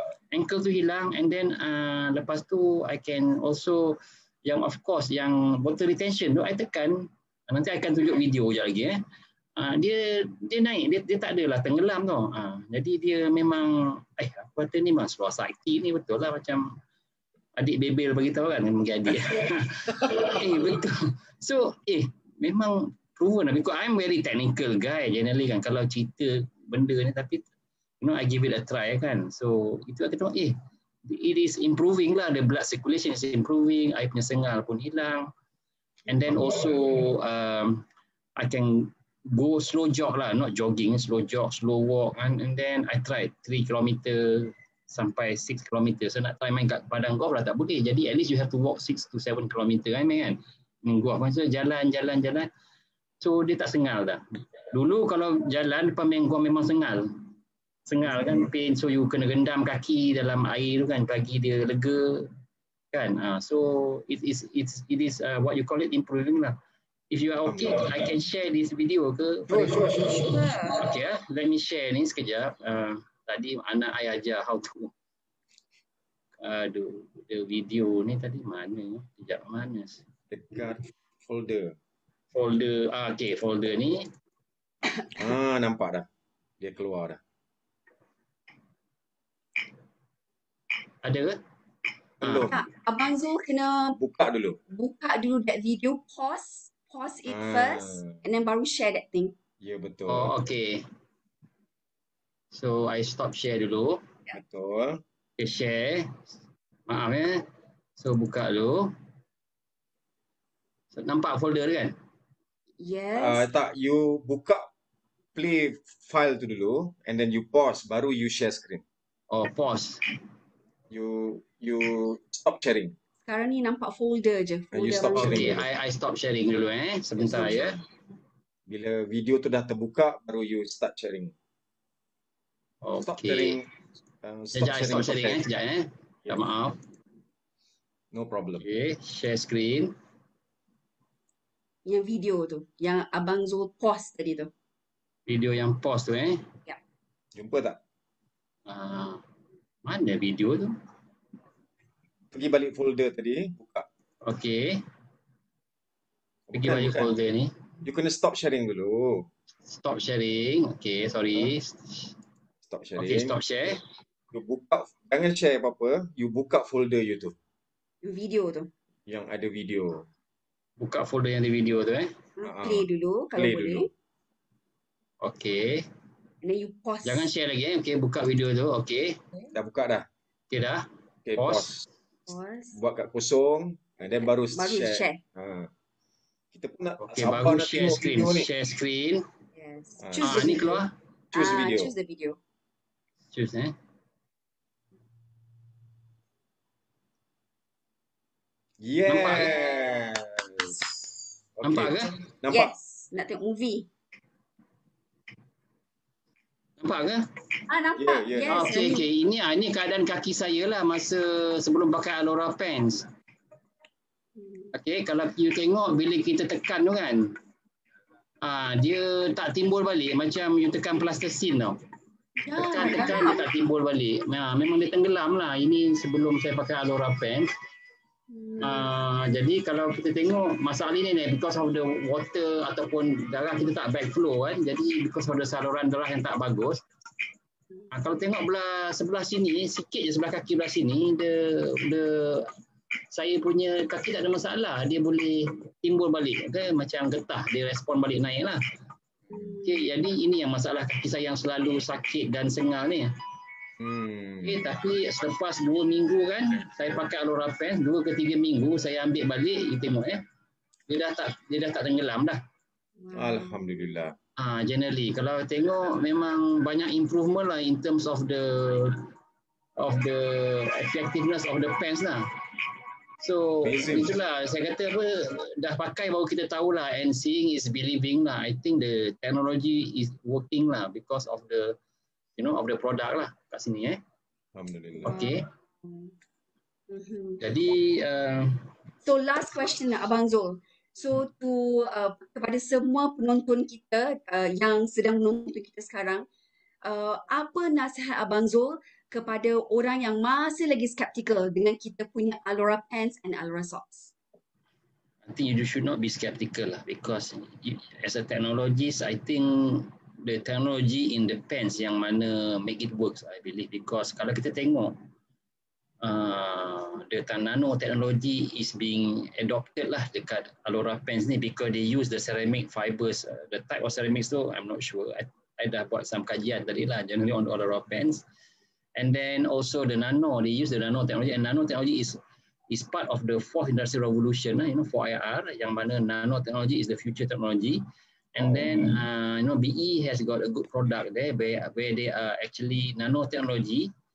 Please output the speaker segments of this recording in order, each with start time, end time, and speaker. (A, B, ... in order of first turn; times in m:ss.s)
0:00.3-0:09.0 A
0:09.6-0:16.7 A
0:17.6-0:27.4 A
0:28.0-0:35.3 A
0:36.1-0:37.8 A
0:38.4-0:52.5 A
0:53.2-0:57.1 A
0:57.9-1:02.3 A
0:58.1-0:58.5 B
1:02.9-1:06.6 A
1:07.1-1:14.9 A
1:07.4-1:08.1 B
1:09.5-1:10.4 B
1:09.9-1:10.8 C
1:16.4-1:20.0 A
1:20.3-1:21.8 B
1:22.3-1:24.1 A
1:25.2-1:26.1 B
1:26.6-1:27.2 B
1:31.0-1:31.4 A
1:32.2-1:32.5 A
1:32.2-1:32.6 B
1:32.5-1:34.0 C
1:34.0-1:34.6 B
1:34.7-1:39.4 C
1:37.3-1:38.2 B
1:39.6-1:40.3 B
1:40.1-1:40.8 A
1:42.5-1:44.0 A
1:44.3-1:45.0 B
1:45.4-1:46.2 A
1:46.9-1:47.4 A
1:48.0-1:48.9 A
1:50.9-1:52.0 A
1:52.8-1:53.5 C
1:53.2-1:54.6 B
1:55.4-1:58.8 B
1:59.3-2:00.0 A
2:00.9-2:02.9 B
2:03.3-2:05.6 C
2:04.7-2:05.7 B
2:05.2-2:07.8 A
2:07.2-2:07.6 B
2:08.7-2:11.3 B
2:12.8-2:13.6 A
2:13.0-2:13.7 B
2:14.2-2:15.4 B
2:14.6-2:16.8 A
2:18.1-2:18.6 B
2:18.6-2:19.9 A
2:21.9-2:24.5 C
2:25.3-2:26.5 A
2:27.4-2:27.8 B
2:28.7-2:29.2 A
2:29.8-2:30.7 A
2:32.3-2:33.9 B
2:34.2-2:34.8 A
2:36.5-2:37.1 B
2:36.5-2:37.5 A
2:37.8-2:39.3 B
2:39.7-2:42.2 A
2:42.6-2:43.7 B
2:43.0-2:43.8 A
2:44.3-2:47.4 B
2:48.0-2:48.7 C
2:49.1-2:50.1 B
2:50.8-2:52.1 A
2:52.4-2:53.9 C
2:52.4-2:53.9 B
2:55.2-2:55.9 A
2:56.4-2:57.3 C
2:57.0-2:59.2 A
2:59.5-3:00.1 B
3:00.5-3:01.7 A
3:01.2-3:01.8 B
3:02.3-3:02.8 C
3:02.8-3:05.7 B
3:04.5-3:05.2 C
3:06.5-3:08.5 B
3:07.0-3:09.2 A
3:09.6-3:12.4 C
3:10.0-3:10.8 B
3:10.2-3:10.9 A
3:11.3-3:11.9 B
3:13.3-3:13.7 A
3:18.8-3:20.8 B
3:19.1-3:19.7 A
3:19.6-3:19.9 C
3:21.6-3:22.7 B
3:21.6-3:22.1 A
3:22.5-3:23.9 C
3:26.8-3:27.2 A
3:27.7-3:29.1 C
3:28.0-3:28.8 B
3:28.5-3:33.1 A
3:34.4-3:34.7 C
3:34.7-3:37.3 A
3:38.4-3:41.8 A
3:42.4-3:43.5 C
3:42.5-3:47.5 A
3:48.3-3:48.9 C
3:48.6-3:56.8 A
3:57.9-4:02.5 A
4:03.1-4:08.6 A
4:09.3-4:09.6 B
4:09.3-4:09.8 C
4:09.6-4:13.1 A
4:13.8-4:14.6 B
4:14.4-4:20.2 A
4:20.9-4:22.4 A
4:23.0-4:23.9 C
4:23.1-4:24.2 B
4:24.4-4:29.0 A
4:29.8-4:32.2 A
4:33.2-4:41.8 A
4:33.6-4:34.2 B
4:42.4-4:44.0 A
4:44.6-4:45.2 B
4:44.9-4:46.1 C
4:45.0-4:45.4 A
4:46.9-4:47.4 C
4:47.4-4:48.7 A
4:49.0-4:56.3 C
4:56.8-5:04.1 C
5:05.3-5:15.0 A
5:16.0-5:28.2 A
5:29.0-5:37.8 A
5:38.3-5:43.9 A
5:38.4-5:39.0 B